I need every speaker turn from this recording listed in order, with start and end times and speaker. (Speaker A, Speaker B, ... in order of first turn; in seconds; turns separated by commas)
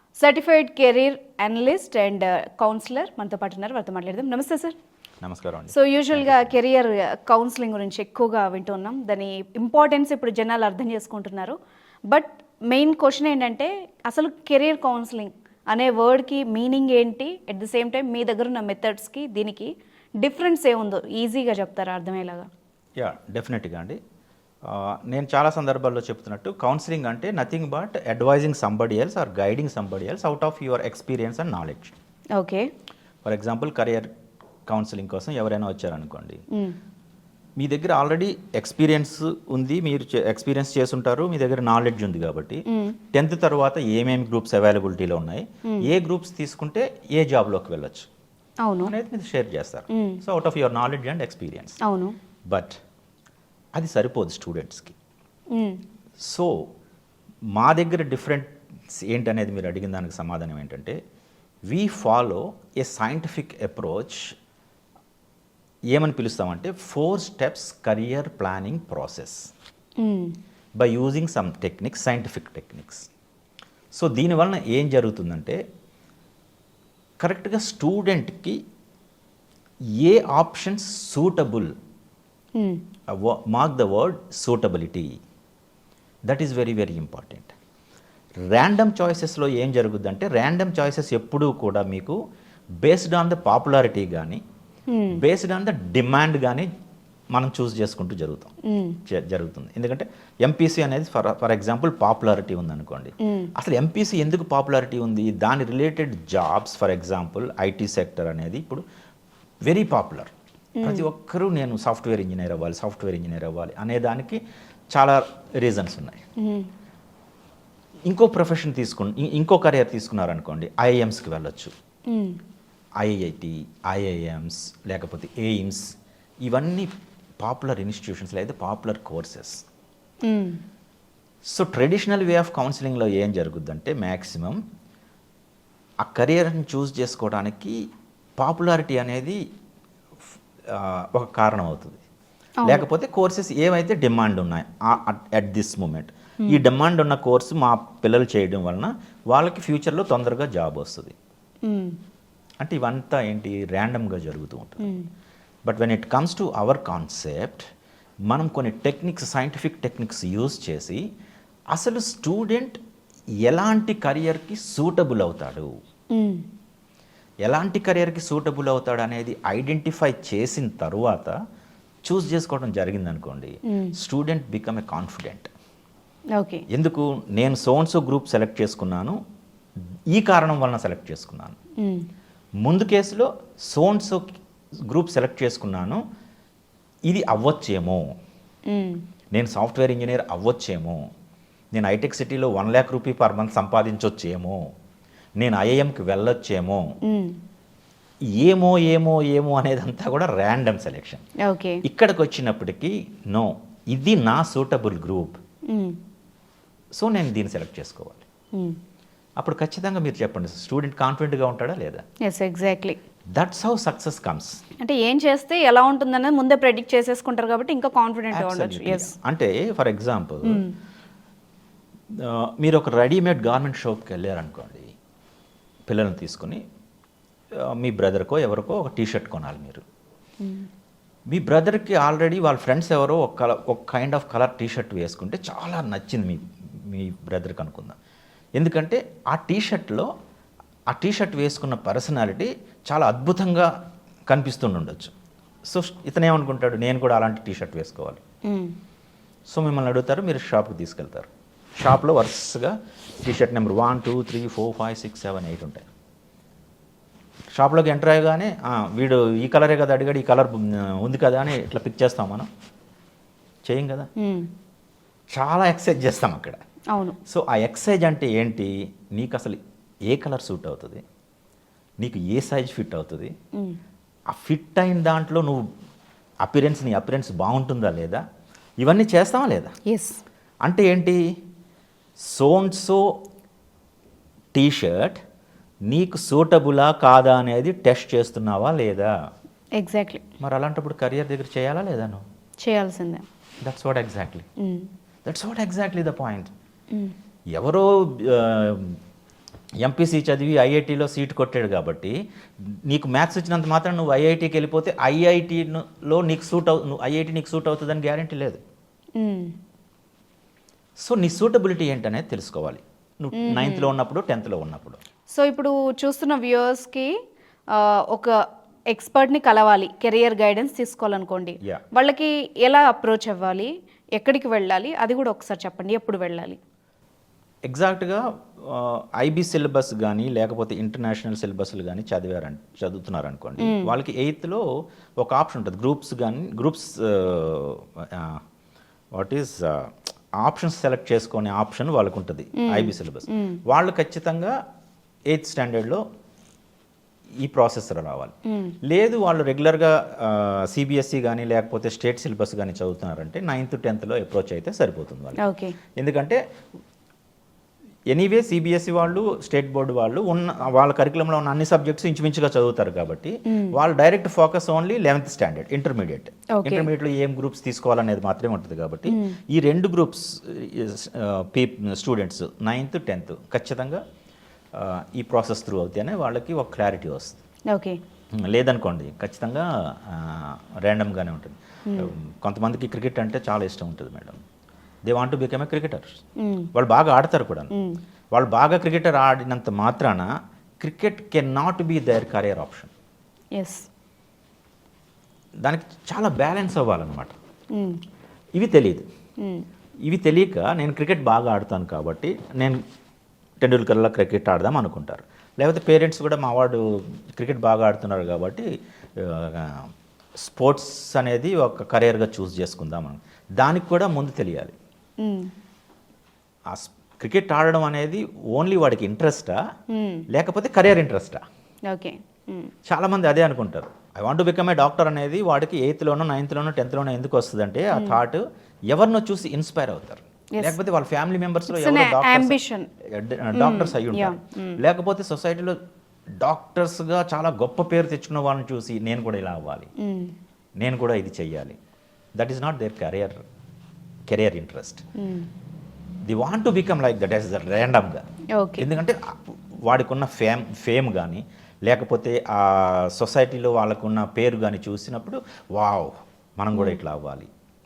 Speaker A: 0.2-4.8, Speaker B: 5.2-6.6, Speaker A: 5.7-11.6, Speaker A: 12.1-22.5, Speaker B: 23.0-24.0, Speaker B: 24.7-31.9, Speaker A: 32.4-32.7, Speaker B: 33.2-34.1, Speaker B: 34.7-36.4, Speaker B: 37.6-48.1, Speaker A: 48.6-48.9, Speaker B: 48.8-51.8, Speaker A: 49.9-50.2, Speaker A: 51.8-52.2, Speaker B: 52.5-52.8, Speaker B: 53.8-55.0, Speaker A: 55.5-55.8, Speaker B: 56.2-56.7, Speaker B: 57.6-61.0, Speaker B: 61.7-64.3, Speaker B: 65.9-69.5, Speaker A: 70.0-70.4, Speaker B: 70.8-73.1, Speaker B: 73.9-75.6, Speaker B: 77.2-78.6, Speaker B: 80.0-81.7, Speaker B: 83.1-85.1, Speaker B: 86.3-87.5, Speaker B: 88.5-92.2, Speaker B: 92.8-94.4, Speaker A: 94.9-95.2, Speaker B: 95.1-96.7, Speaker B: 97.3-98.5, Speaker A: 98.7-99.0, Speaker B: 99.1-108.8, Speaker A: 103.3-103.5, Speaker B: 109.7-114.4, Speaker A: 110.8-111.1, Speaker B: 114.9-116.2, Speaker A: 116.4-116.7, Speaker B: 118.1-121.7, Speaker A: 122.1-122.4, Speaker B: 123.0-125.8, Speaker B: 126.5-126.9, Speaker B: 127.4-129.6, Speaker A: 130.2-130.6, Speaker B: 131.5-134.6, Speaker B: 136.0-137.8, Speaker B: 138.4-139.4, Speaker B: 140.7-142.0, Speaker A: 142.6-142.9, Speaker B: 142.6-151.2, Speaker A: 151.7-151.9, Speaker B: 152.6-154.9, Speaker A: 154.8-155.1, Speaker B: 155.7-157.7, Speaker B: 158.3-161.0, Speaker B: 161.7-162.8, Speaker B: 163.5-165.7, Speaker A: 166.1-166.4, Speaker B: 167.5-171.3, Speaker B: 172.1-175.5, Speaker A: 176.4-176.6, Speaker B: 176.7-179.2, Speaker B: 180.1-181.6, Speaker A: 181.8-182.1, Speaker B: 182.6-184.4, Speaker B: 184.9-186.0, Speaker B: 187.1-188.0, Speaker A: 188.7-189.0, Speaker B: 189.3-191.0, Speaker B: 191.7-194.6, Speaker B: 195.4-196.8, Speaker A: 197.1-197.4, Speaker B: 198.4-201.2, Speaker A: 201.4-201.8, Speaker B: 201.8-205.4, Speaker A: 205.7-206.0, Speaker B: 207.0-208.2, Speaker B: 209.4-212.0, Speaker A: 212.2-213.0, Speaker B: 213.4-214.6, Speaker A: 214.8-219.1, Speaker B: 218.3-220.6, Speaker A: 220.4-220.7, Speaker B: 222.1-224.9, Speaker B: 225.9-226.6, Speaker B: 227.7-229.8, Speaker A: 230.4-230.7, Speaker B: 231.3-238.0, Speaker B: 238.6-240.1, Speaker B: 240.9-243.7, Speaker B: 244.3-245.1, Speaker B: 245.7-248.2, Speaker A: 248.5-248.7, Speaker B: 249.5-255.9, Speaker B: 257.6-262.5, Speaker B: 263.7-264.1, Speaker A: 264.2-264.5, Speaker B: 265.3-266.6, Speaker B: 267.3-271.0, Speaker B: 272.0-273.3, Speaker B: 274.3-275.7, Speaker B: 276.4-278.2, Speaker B: 278.8-279.7, Speaker A: 279.9-280.2, Speaker B: 280.6-281.2, Speaker B: 282.2-283.0, Speaker B: 284.5-285.2, Speaker B: 285.9-289.1, Speaker A: 289.8-290.2, Speaker B: 290.4-292.2, Speaker A: 292.6-293.2, Speaker B: 293.6-294.5, Speaker A: 294.6-294.9, Speaker B: 295.2-296.5, Speaker B: 297.6-299.0, Speaker B: 299.8-308.6, Speaker A: 309.2-309.5, Speaker B: 311.0-315.0, Speaker A: 313.3-313.9, Speaker A: 315.3-317.1, Speaker A: 317.8-318.3, Speaker A: 318.9-326.6, Speaker B: 327.7-334.6, Speaker A: 333.6-333.9, Speaker B: 335.2-338.4, Speaker B: 339.1-344.5, Speaker A: 342.6-343.6, Speaker B: 345.3-346.0, Speaker B: 347.4-348.4, Speaker A: 348.5-348.8, Speaker B: 348.9-355.4, Speaker A: 355.4-355.8, Speaker B: 356.0-356.4, Speaker B: 358.1-374.0, Speaker A: 366.6-366.9, Speaker A: 369.1-369.4, Speaker B: 374.7-377.4, Speaker A: 377.7-378.0, Speaker B: 378.4-384.4, Speaker B: 385.1-386.2, Speaker A: 386.4-386.7, Speaker B: 386.7-387.7, Speaker A: 387.7-388.0, Speaker B: 388.3-390.3, Speaker B: 390.8-392.9, Speaker A: 393.6-393.9, Speaker B: 395.6-397.4, Speaker A: 397.7-398.0, Speaker B: 398.6-399.1, Speaker B: 400.1-402.8, Speaker B: 403.6-408.7, Speaker B: 409.2-409.9, Speaker B: 410.4-414.8, Speaker A: 415.2-415.5, Speaker B: 416.7-419.6, Speaker A: 419.9-420.2, Speaker B: 420.3-421.4, Speaker A: 421.9-422.7, Speaker B: 422.9-435.8, Speaker A: 431.7-432.9, Speaker A: 433.5-434.8, Speaker B: 436.4-439.9, Speaker A: 440.0-440.4, Speaker B: 440.8-441.8, Speaker B: 442.4-443.4, Speaker B: 444.3-445.0, Speaker A: 445.2-445.5, Speaker B: 446.3-448.2, Speaker A: 448.6-448.9, Speaker B: 448.8-457.5, Speaker A: 456.7-457.0